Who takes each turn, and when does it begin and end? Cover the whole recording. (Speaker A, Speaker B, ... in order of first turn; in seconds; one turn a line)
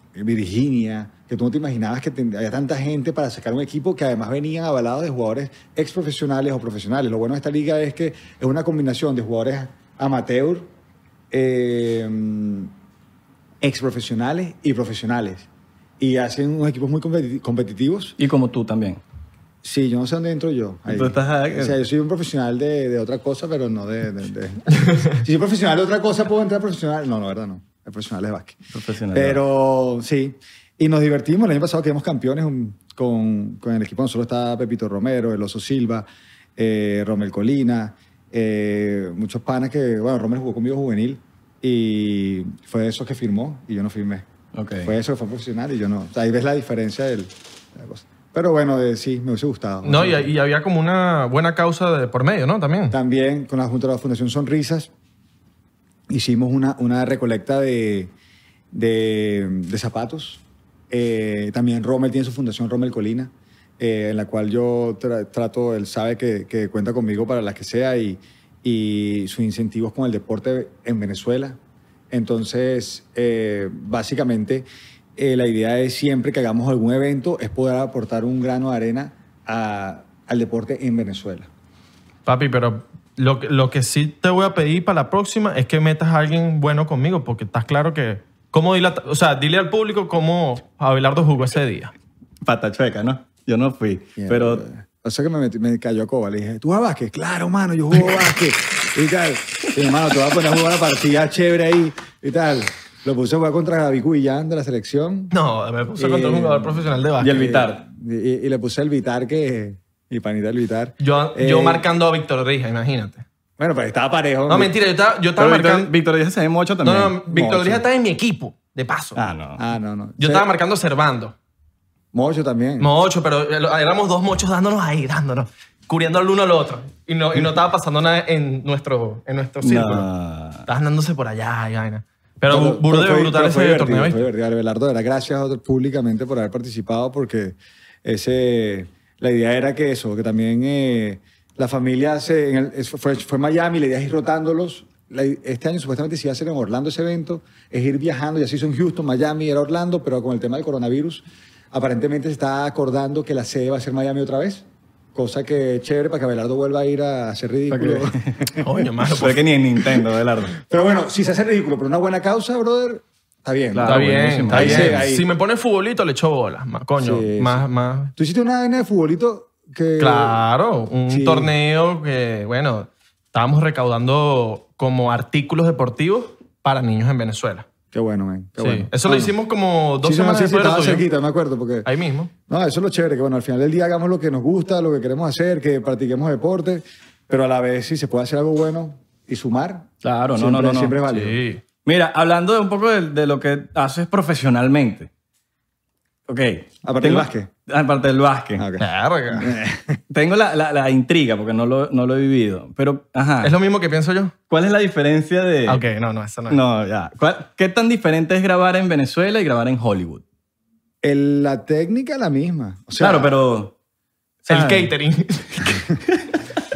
Speaker A: 0.1-10.7
Speaker A: 11.3-12.7
Speaker A: 13.6-15.5
Speaker A: 16.0-18.2
Speaker B: 18.2-19.0
Speaker A: 19.6-28.6
Speaker B: 20.9-21.8
Speaker B: 28.7-29.4
Speaker A: 29.1-44.3
Speaker B: 44.5-44.9
Speaker A: 44.8-50.3
Speaker C: 49.8-53.0
Speaker A: 52.9-54.9
Speaker A: 56.1-58.1
Speaker A: 58.7-71.6
Speaker A: 72.1-81.5
Speaker C: 82.3-91.9
Speaker B: 92.4-94.6
Speaker A: 94.2-105.3
Speaker C: 105.3-107.4
Speaker A: 106.0-111.9
Speaker B: 107.2-107.8
Speaker C: 111.0-113.2
Speaker A: 113.6-114.7
Speaker C: 114.5-115.9
Speaker B: 115.4-117.2
Speaker C: 116.8-119.2
Speaker A: 117.3-117.8
Speaker B: 119.2-119.6
Speaker A: 119.6-120.5
Speaker C: 120.2-121.3
Speaker A: 122.1-122.9
Speaker C: 122.8-130.1
Speaker B: 129.6-130.7
Speaker C: 130.7-134.3
Speaker A: 132.5-158.6
Speaker B: 157.7-158.5
Speaker C: 158.6-159.4
Speaker B: 159.0-160.6
Speaker A: 160.6-165.3
Speaker B: 163.7-165.1
Speaker C: 163.8-168.1
Speaker A: 167.0-167.7
Speaker A: 168.2-170.4
Speaker C: 170.0-177.7
Speaker A: 171.1-171.5
Speaker A: 177.9-179.3
Speaker C: 178.6-181.1
Speaker A: 180.0-181.9
Speaker C: 181.9-182.3
Speaker A: 182.5-191.4
Speaker B: 190.0-191.0
Speaker C: 191.1-191.6
Speaker B: 191.8-195.1
Speaker B: 196.3-198.6
Speaker A: 196.8-197.5
Speaker A: 198.6-200.0
Speaker C: 198.8-199.6
Speaker B: 200.1-203.6
Speaker C: 203.4-204.3
Speaker B: 204.5-205.8
Speaker C: 205.7-206.6
Speaker B: 206.5-210.2
Speaker A: 211.0-213.3
Speaker B: 213.0-213.7
Speaker C: 214.5-215.8
Speaker B: 214.5-214.9
Speaker B: 216.1-216.4